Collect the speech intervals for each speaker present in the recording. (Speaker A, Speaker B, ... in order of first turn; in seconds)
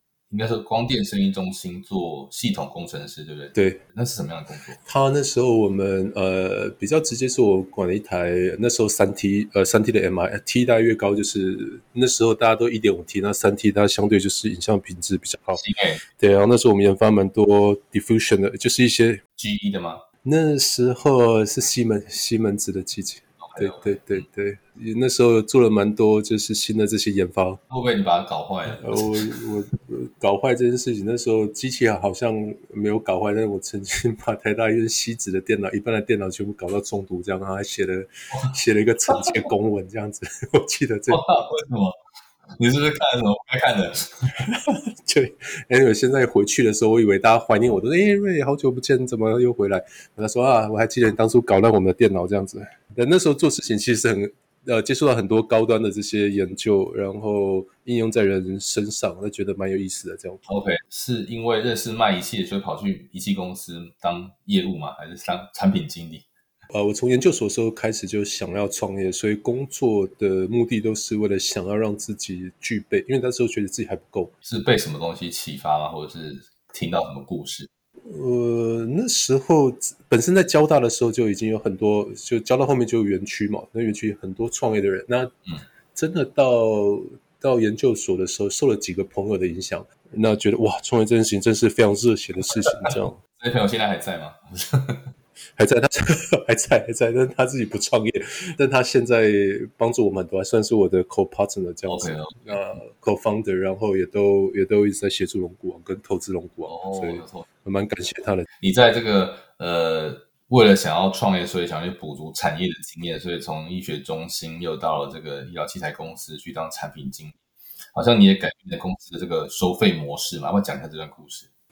Speaker A: 0.3-4.8, 15.5-16.0, 19.4-20.0, 23.4-24.2, 27.7-29.3, 39.1-39.4, 41.1-42.0, 42.6-44.4, 60.5-66.3, 74.5-77.7, 92.7-95.0, 101.9-102.8, 106.7-107.5, 108.6-117.4, 118.0-121.5
Speaker B: 3.5-3.8, 4.8-15.6, 16.2-19.2, 20.2-27.6, 28.7-41.2, 44.4-60.4, 66.7-74.3, 78.0-85.3, 86.0-93.2, 95.6-108.5